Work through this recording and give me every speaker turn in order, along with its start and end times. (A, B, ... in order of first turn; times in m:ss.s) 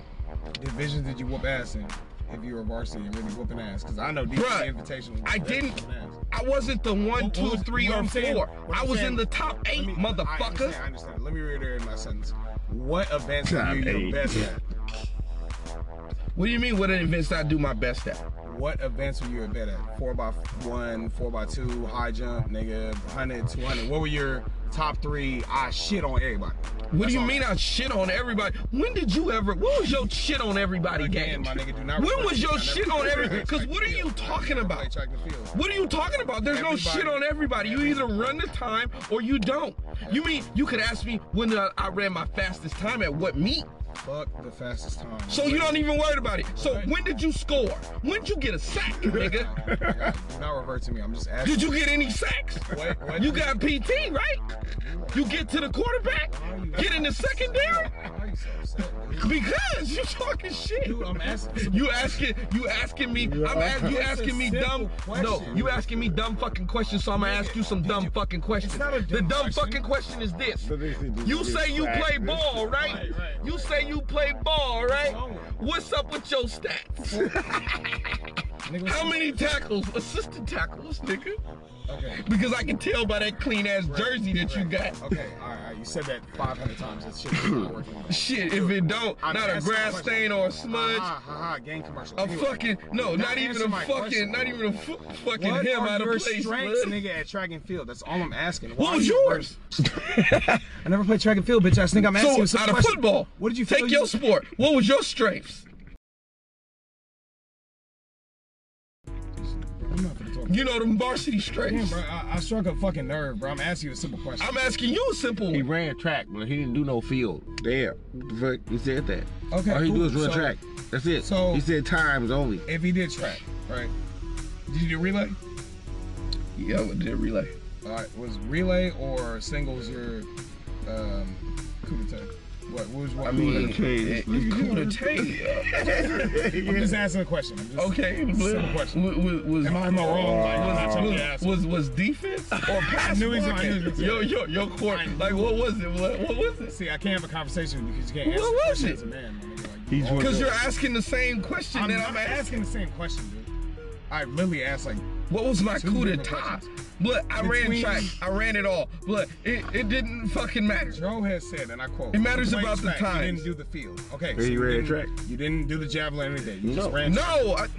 0:00.6-0:06.2 A
0:04.3-0:04.7 B
0:05.2-0:05.8 B
0:06.3-0:10.8 B
0:07.1-0:14.6 A
0:13.4-0:14.5 C
0:16.3-0:18.2 B
0:18.4-0:27.4 A
0:26.9-0:34.9 B
0:30.9-0:35.5 A
0:35.5-0:43.7 B
0:36.4-0:38.2 A
0:44.0-0:45.8 A
0:45.3-0:49.5 B
0:46.6-0:46.9 A
0:49.0-0:51.8 A
0:49.7-0:50.0 C
0:51.4-0:54.5 B
0:52.7-0:53.7 A
0:54.7-0:59.4 A
0:55.1-0:57.9 B
0:59.2-1:10.7 B
1:00.8-1:02.2 A
1:03.2-1:03.9 C
1:03.6-1:06.1 A
1:05.5-1:06.2 C
1:06.8-1:09.9 A
1:10.6-1:12.7 C
1:11.2-1:18.2 B
1:12.7-1:14.1 A
1:14.9-1:15.6 A
1:17.1-1:17.4 A
1:18.6-1:19.5 A
1:18.8-1:21.4 B
1:21.9-1:22.2 A
1:22.1-1:25.0 B
1:23.8-1:34.4 A
1:28.1-1:31.1 B
1:32.2-1:37.0 B
1:35.3-1:39.6 A
1:38.8-1:39.6 B
1:40.1-1:40.6 C
1:40.5-1:44.2 A
1:42.0-1:45.6 B
1:49.4-1:50.7 A
1:50.5-1:52.0 B
1:51.6-1:54.7 A
1:54.4-1:55.6 B
1:55.5-2:02.6 C
1:59.5-2:00.6 A
2:01.2-2:01.6 A
2:02.6-2:03.9 A
2:04.7-2:05.4 A
2:06.6-2:07.5 B
2:07.8-2:10.3 A
2:10.8-2:13.8 A
2:13.2-2:15.9 B
2:13.2-2:17.0 C
2:16.0-2:19.0 A
2:17.8-2:26.8 B
2:19.6-2:21.6 A
2:20.0-2:21.3 C
2:22.5-2:22.9 C
2:22.9-2:25.6 A
2:26.6-2:30.6 A
2:28.2-2:29.0 B
2:29.9-2:30.6 C
2:30.2-2:32.6 B
2:31.7-2:33.5 A
2:34.1-2:36.7 A
2:35.3-2:41.0 B
2:37.4-2:38.2 A
2:40.9-2:47.5 A
2:42.1-2:43.5 B
2:44.3-2:45.1 C
2:46.6-2:47.0 C
2:47.0-2:47.7 B